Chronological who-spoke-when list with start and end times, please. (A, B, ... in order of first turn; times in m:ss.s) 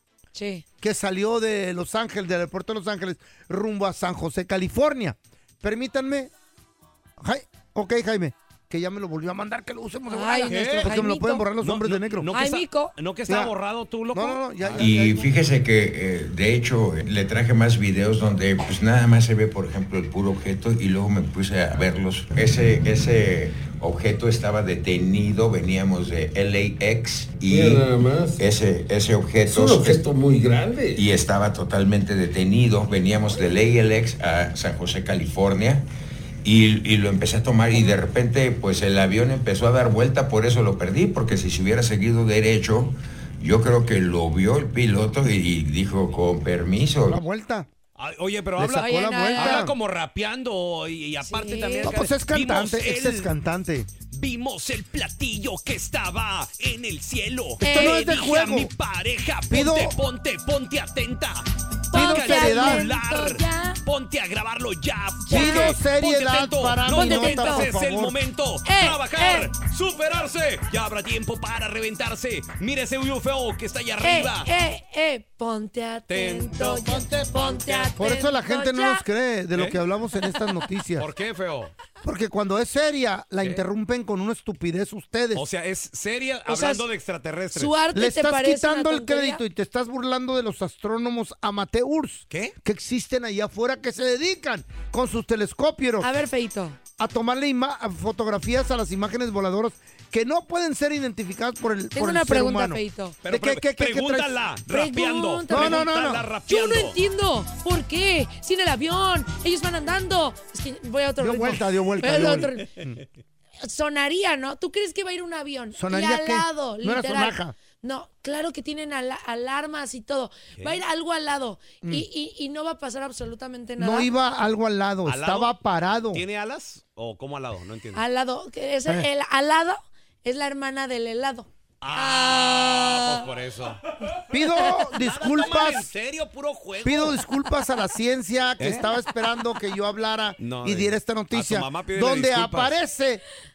0:00.3-0:00.6 A
0:00.8-0:06.3 B
0:07.2-0:12.3 B
0:10.1-0:11.5 A
0:10.5-0:11.0 C
0:11.6-0:15.1 C
0:12.3-0:12.9 A
0:13.3-0:13.5 B
0:14.1-0:15.3 B
0:14.8-0:27.9 D
0:27.5-0:28.4 E
0:28.4-0:30.0 D
0:29.4-0:31.0 E
0:31.0-0:35.8 D
0:36.4-0:47.2 D
0:47.1-0:47.7 B
0:48.0-0:53.3 C
0:48.6-0:49.7 B
0:48.7-0:49.6 A
0:51.2-0:52.0 A
0:51.8-0:53.9 B
0:54.1-1:14.5 C
0:57.6-0:58.7 B
0:57.6-0:58.2 A
0:59.5-0:59.9 B
1:01.9-1:03.8 A
1:01.9-1:02.9 B
1:05.2-1:05.7 A
1:05.3-1:08.1 B
1:06.9-1:07.7 A
1:08.6-1:09.5 A
1:14.0-1:19.0 A
1:16.1-1:17.9 C
1:18.0-1:21.1 B
1:21.0-1:21.7 C
1:22.0-1:25.4 B
1:25.3-1:27.7 C
1:26.5-1:26.8 A
1:27.5-1:29.4 A
1:27.9-1:36.1 B
1:36.0-1:36.8 A
1:37.0-1:44.3 B
1:41.9-1:43.2 A
1:43.2-1:47.0 C
1:44.7-1:45.9 A
1:45.5-1:46.2 B
1:46.5-1:52.7 A
1:51.2-1:52.9 B
1:53.6-2:04.1 A
1:55.7-1:57.5 B
2:03.8-2:06.2 B
2:05.0-2:05.5 C
2:06.1-2:08.0 C
2:07.9-2:13.2 A
2:11.8-2:13.8 C
2:14.3-2:15.9 B
2:14.7-2:17.2 C
2:16.8-2:23.2 B
2:18.6-2:18.9 C
2:20.4-2:22.8 C